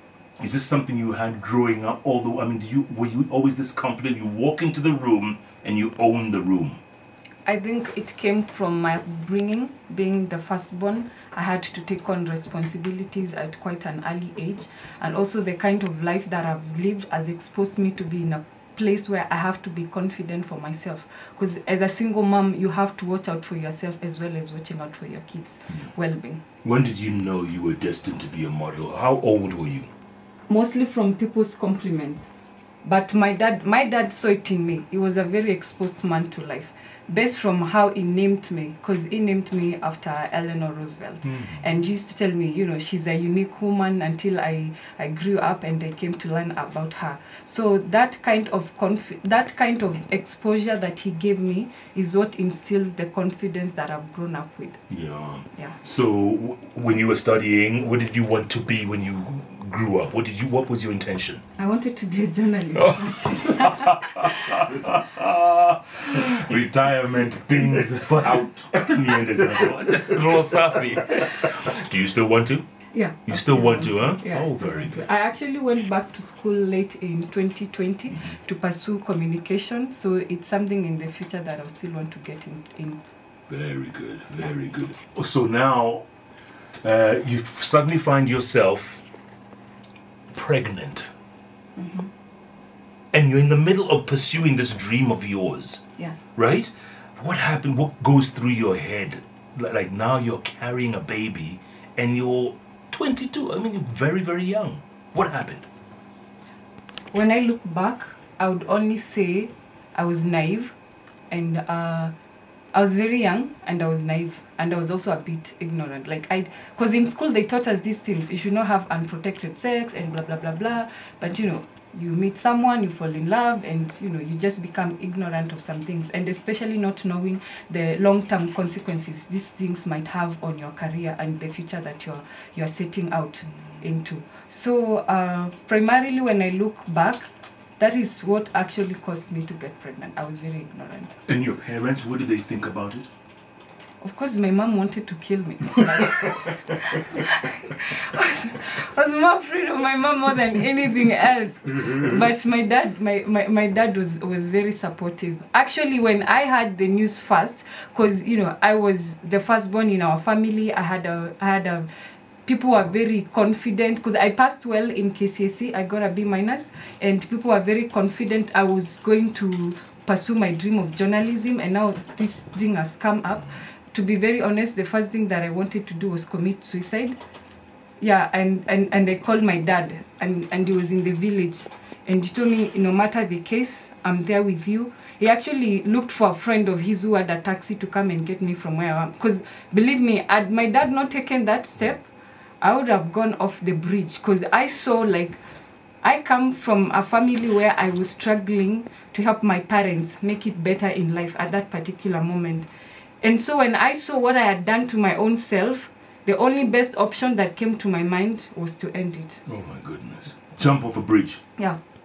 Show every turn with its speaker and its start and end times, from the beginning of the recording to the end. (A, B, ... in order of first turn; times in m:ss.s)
0:00.4-0:06.8 A
0:07.4-0:26.4 B
0:26.6-0:29.9 A
0:30.5-0:32.3 B
0:32.8-0:54.8 B
0:41.2-0:41.8 A
0:54.9-1:01.4 A
1:01.6-1:04.7 B
1:02.8-1:12.6 A
1:12.9-1:23.0 B
1:13.2-1:15.1 A
1:23.5-1:26.0 A
1:26.8-1:29.0 A
1:30.3-1:31.1 A
1:31.8-1:32.1 B
1:33.1-1:35.8 A
1:36.3-1:45.6 A
1:47.1-1:50.7 B
1:51.3-1:52.1 B
1:52.7-2:21.1 B
2:21.2-2:23.1 A
2:24.0-2:41.9 B
2:42.4-2:57.2 B
2:58.0-3:12.1 B
3:12.6-3:15.4 B
3:16.0-3:22.7 B
3:23.2-3:29.4 B
3:29.4-3:31.4 A